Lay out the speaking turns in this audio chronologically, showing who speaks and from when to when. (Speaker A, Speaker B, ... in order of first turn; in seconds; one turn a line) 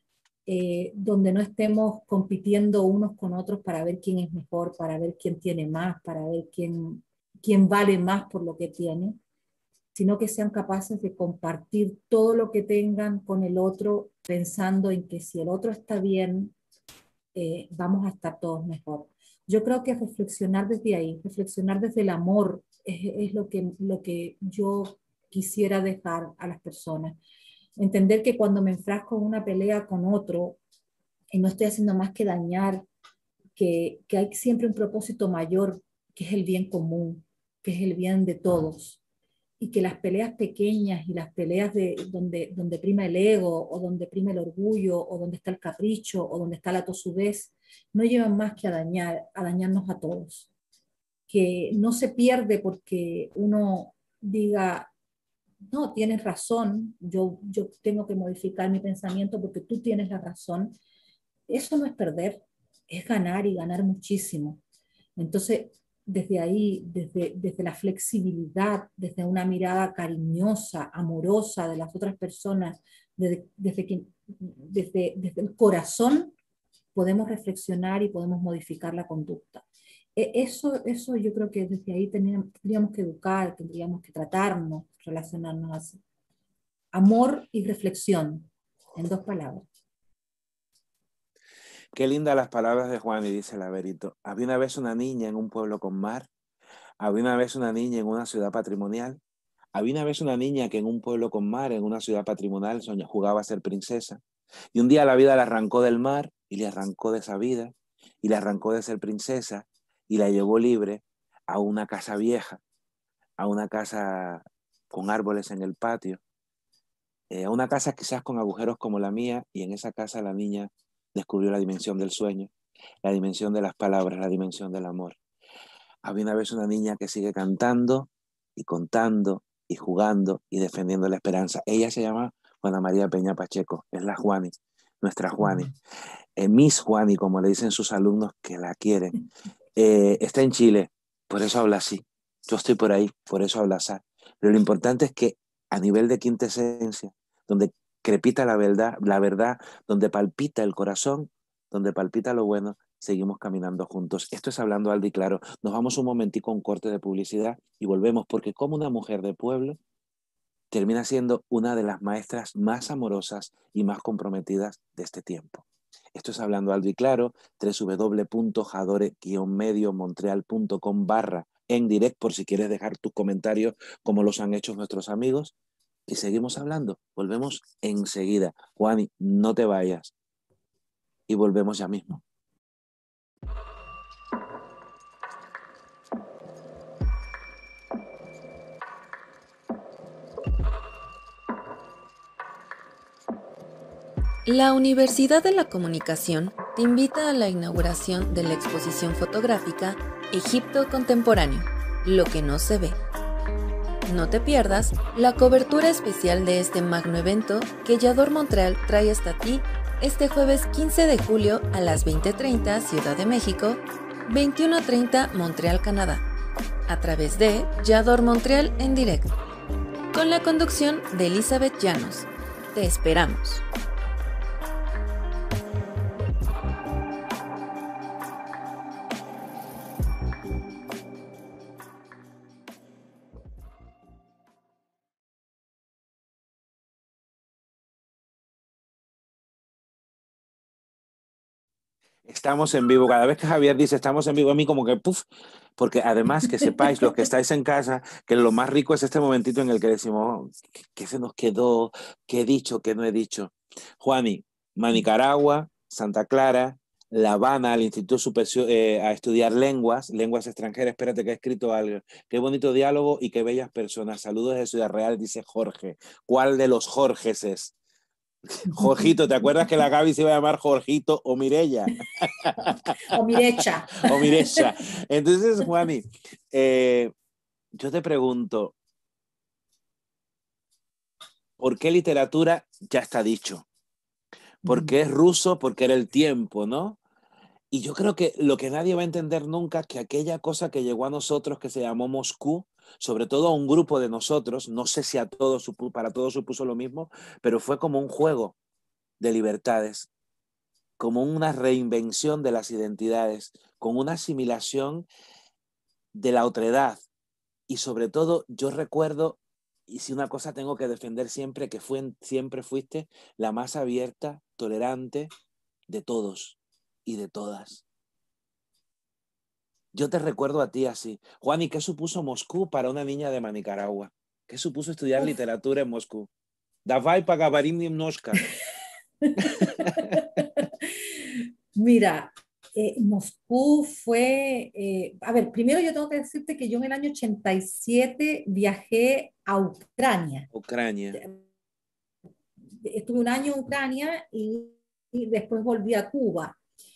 Speaker A: 0.5-9.2
Speaker A: 9.9-16.5
Speaker A: 17.4-27.2
Speaker A: 27.8-30.6
Speaker A: 31.3-32.9
Speaker A: 33.6-39.0
Speaker A: 39.6-50.5
Speaker A: 51.3-54.9
Speaker A: 55.7-60.7
Speaker A: 61.5-64.6
Speaker A: 65.2-76.3
Speaker A: 77.0-79.7
Speaker A: 80.2-86.0
Speaker A: 86.9-89.7
Speaker B: 91.9-96.3
Speaker B: 97.0-99.2
Speaker B: 99.7-104.2
Speaker B: 104.7-112.6
Speaker B: 113.4-116.2
Speaker B: 117.3-122.5
Speaker B: 123.0-125.2
Speaker B: 126.0-135.8
Speaker A: 135.4-135.7
Speaker B: 136.4-139.2
Speaker B: 139.8-159.8
Speaker B: 160.7-175.5
Speaker B: 176.1-180.1
Speaker B: 181.3-182.2
Speaker C: 194.5-203.0
Speaker C: 204.1-216.2
Speaker C: 216.9-219.3
Speaker C: 220.1-223.6
Speaker B: 242.2-245.2
Speaker B: 245.8-267.7
Speaker B: 268.5-273.4
Speaker A: 268.7-269.0
Speaker A: 272.6-274.7
Speaker B: 274.0-277.1
Speaker B: 277.8-278.8
Speaker B: 281.6-283.7
Speaker B: 284.6-287.0
Speaker A: 284.7-285.0
Speaker B: 287.7-298.6
Speaker B: 299.2-300.1
Speaker B: 301.0-305.1
Speaker B: 306.1-307.0
Speaker B: 307.7-315.3
Speaker B: 315.9-317.8
Speaker B: 319.9-326.3
Speaker B: 326.9-328.4
Speaker A: 329.2-340.5
Speaker B: 329.4-330.2
Speaker B: 340.5-341.2
Speaker A: 342.8-346.6